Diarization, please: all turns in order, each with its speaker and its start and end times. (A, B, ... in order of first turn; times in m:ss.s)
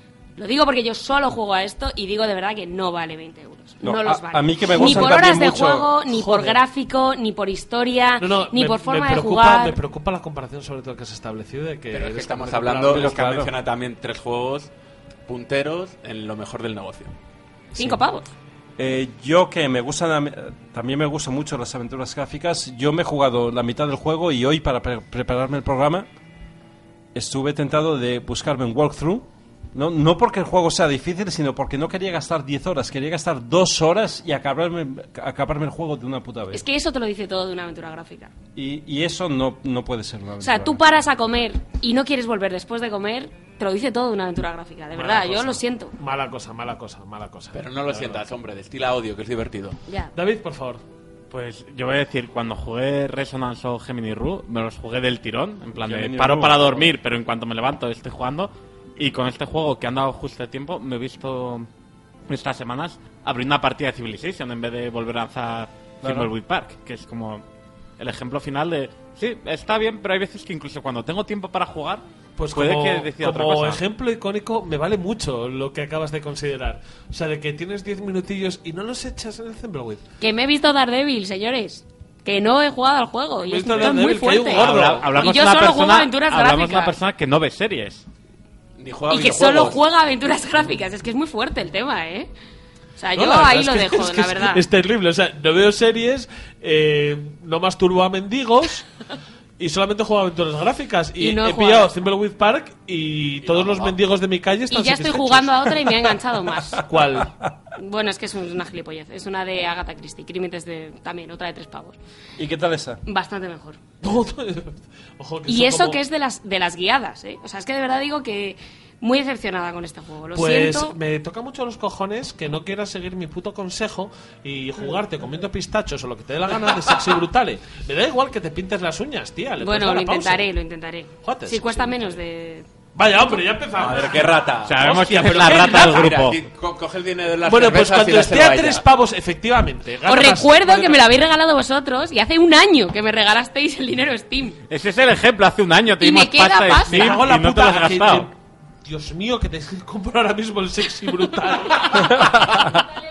0:00.4-0:09.8 A
0:03.8-0:06.4 B
0:04.8-0:05.2 C
0:08.2-0:13.1 C
0:11.9-0:14.7 D
0:12.9-0:13.5 B
0:15.3-0:17.1 D
0:17.8-0:18.3 A
0:18.8-0:26.1 B
0:27.1-0:36.6 B
0:36.5-0:38.3 A
0:38.5-0:40.8 B
0:40.4-0:45.9 A
0:44.9-0:48.2 C
0:47.5-0:49.8 D
0:49.9-0:50.1 A
0:50.1-0:50.8 C
0:51.3-1:01.7 E
0:55.8-0:56.9 B
1:02.3-1:07.4 E
1:06.0-1:06.3 B
1:08.0-1:13.8 E
1:12.4-1:20.0 C
1:20.2-1:26.9 A
1:23.4-1:25.1 C
1:24.5-1:28.0 E
1:28.8-1:29.8 D
1:29.1-1:32.3 A
1:33.0-1:34.6 A
1:33.1-1:38.8 C
1:39.6-1:45.7 C
1:41.2-1:41.9 A
1:43.4-1:44.0 D
1:44.7-1:46.8 A
1:46.9-1:47.3 C
1:47.8-1:52.0 A
1:52.4-1:53.0 B
1:53.0-1:53.8 A
1:54.0-1:56.0 C
1:55.5-2:00.9 A
2:00.3-2:10.5 C
2:09.6-2:12.6 A
2:11.2-2:12.2 C
2:12.9-2:16.2 C
2:13.8-2:18.8 D
2:14.6-2:16.4 E
2:17.4-2:21.1 C
2:20.0-2:24.6 A
2:24.7-2:28.3 E
2:26.0-2:27.2 A
2:26.7-2:32.8 C